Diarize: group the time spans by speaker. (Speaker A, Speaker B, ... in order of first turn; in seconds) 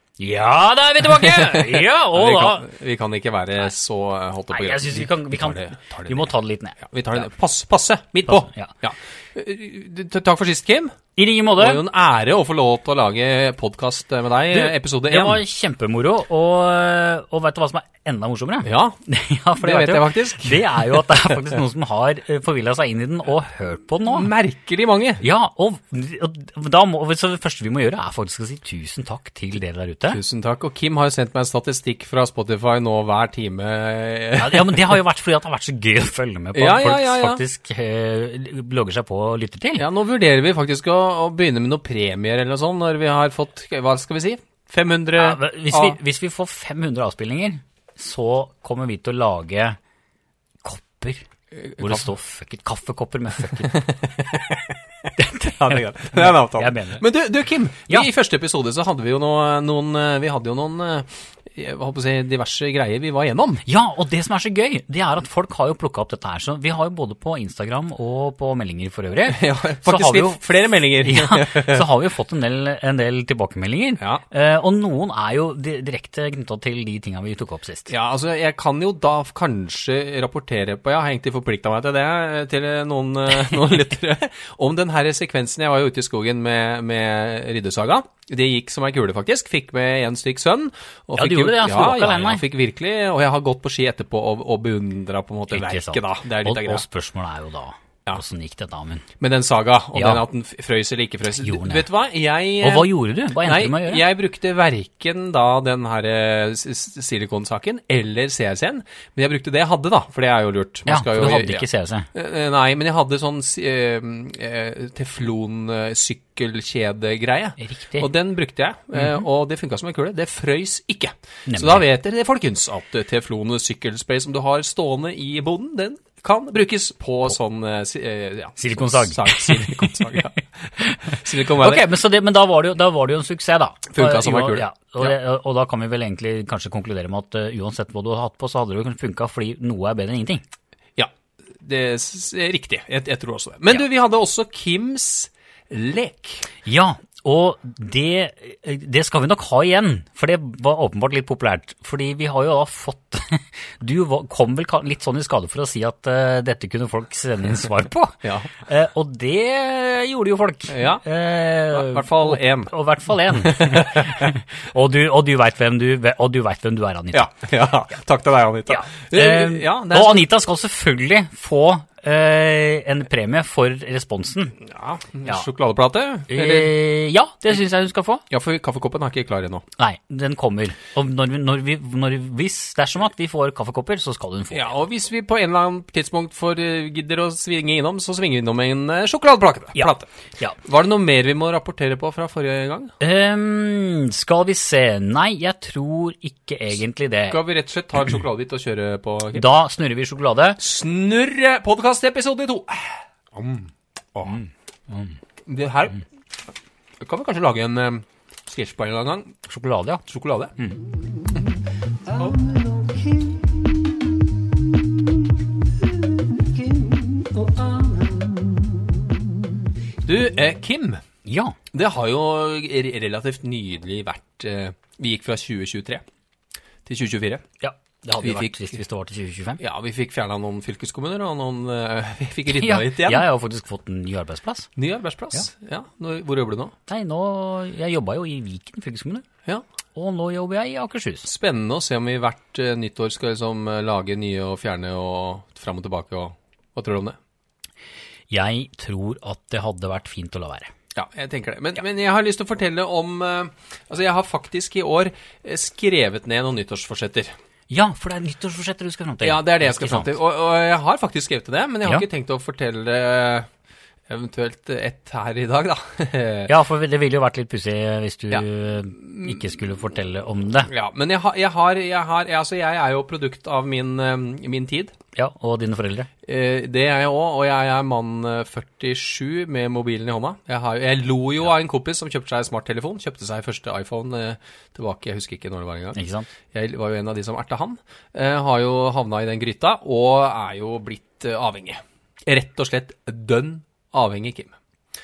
Speaker A: 0.2-2.7, 4.5-6.8, 8.3-8.7, 11.2-11.8, 14.5-24.3, 25.2-30.2, 34.4-39.8, 45.2-49.8, 50.6-53.9, 55.2-57.0, 63.6-77.9, 91.2-92.4, 95.5-99.1, 99.9-100.2, 101.4-101.9, 102.6-104.1, 110.8-112.1, 117.6-118.1, 121.5-121.8, 128.6-140.4, 146.6-167.3, 168.7-174.6, 176.3-178.2, 179.8-184.8, 189.7-190.6, 193.0-197.4, 199.3-200.6, 204.2-205.2, 209.4-210.0, 221.2-221.6, 227.6-229.6, 232.5-234.7, 236.9-239.2, 239.9-241.3, 248.3-250.7, 257.7-260.1, 266.5-270.7, 275.1-276.1, 285.9-286.3
Speaker B: 1.1-10.9, 11.5-15.4, 18.6-19.0, 19.6-21.6, 24.1-25.2, 30.1-35.0, 36.5-37.4, 39.8-46.0, 51.6-52.0, 53.6-63.6, 69.3-71.9, 77.9-96.8, 99.2-131.9, 133.9-135.2, 140.9-146.5, 158.2-158.5, 160.7-161.0, 161.7-164.3, 167.1-170.3, 174.6-176.8, 178.3-179.6, 184.5-190.1, 190.6-192.9, 197.3-199.4, 200.6-204.4, 205.4-206.0, 207.0-209.3, 210.1-210.6, 212.1-212.5, 220.0-221.0, 221.7-226.0, 226.8-227.4, 228.2-228.5, 229.6-233.2, 234.8-236.7, 241.2-247.2, 250.9-257.3, 259.2-263.5, 264.1-266.5, 269.1-269.4, 270.7-274.9, 276.2-286.0, 286.5-294.6